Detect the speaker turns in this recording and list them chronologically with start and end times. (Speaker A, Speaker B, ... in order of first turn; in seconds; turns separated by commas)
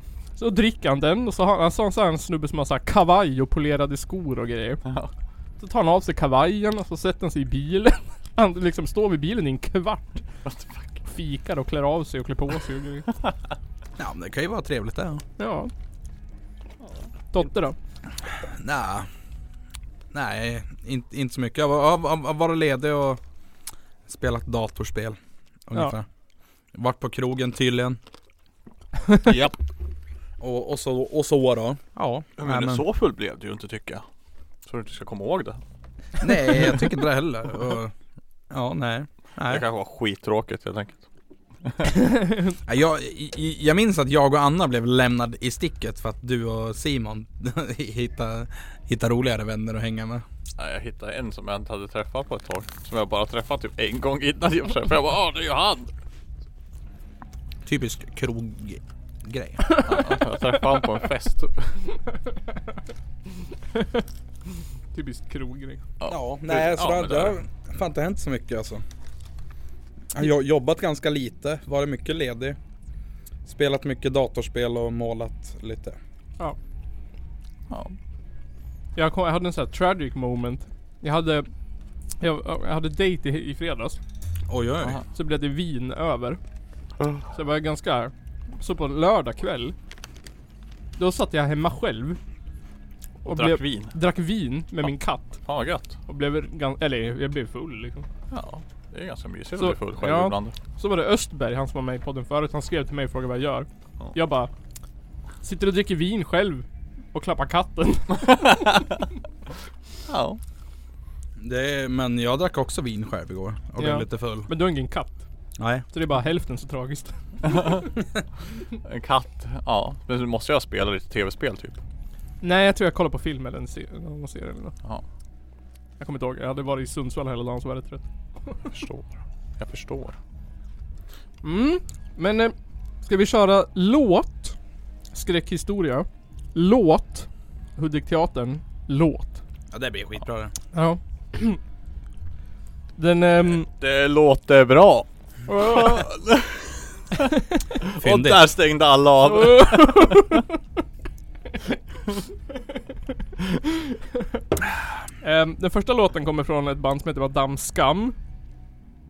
Speaker A: 0.4-4.8, Speaker B: 4.8-5.1, Speaker A: 5.6-10.1, Speaker B: 10.4-11.0, Speaker A: 11.0-13.1, Speaker C: 14.0-15.2, Speaker A: 15.4-15.7, Speaker A: 17.3-17.8, Speaker C: 18.4-19.1, Speaker C: 20.1-23.2, Speaker C: 24.1-26.1, Speaker C: 26.7-28.0, Speaker B: 29.2-29.5, Speaker C: 30.4-32.8, Speaker B: 32.4-34.0, Speaker B: 34.6-35.6, Speaker C: 36.2-37.9, Speaker C: 38.5-39.6, Speaker B: 39.4-41.0, Speaker A: 42.0-42.5, Speaker C: 42.7-50.2, Speaker B: 50.6-55.9, Speaker C: 57.6-59.8, Speaker B: 59.8-61.8, Speaker A: 64.9-65.8, Speaker B: 66.0-67.4, Speaker C: 66.1-68.8, Speaker C: 70.1-72.6, Speaker C: 73.5-76.0, Speaker B: 77.7-77.9, Speaker A: 79.0-81.5, Speaker A: 82.2-84.0, Speaker C: 84.5-85.0, Speaker A: 85.1-86.4, Speaker A: 87.3-89.7, Speaker A: 91.0-92.2, Speaker B: 93.2-93.9, Speaker A: 93.2-95.4, Speaker B: 95.4-96.0, Speaker A: 96.1-98.1, Speaker B: 98.3-100.5, Speaker A: 99.6-104.5, Speaker A: 105.4-108.3, Speaker B: 108.3-108.8, Speaker B: 110.1-110.4, Speaker C: 111.4-114.5, Speaker A: 113.8-115.2, Speaker C: 115.6-115.8, Speaker A: 115.9-117.7, Speaker B: 117.5-117.8, Speaker B: 118.8-121.8, Speaker A: 122.4-124.7, Speaker A: 126.0-128.0, Speaker B: 128.7-130.2, Speaker A: 131.4-134.6, Speaker A: 135.1-139.4, Speaker C: 139.7-140.5, Speaker A: 140.7-141.6, Speaker A: 143.0-143.7, Speaker B: 143.7-147.2, Speaker A: 145.5-146.0, Speaker B: 147.8-150.4, Speaker C: 148.0-148.5, Speaker A: 149.3-150.4, Speaker A: 155.2-158.2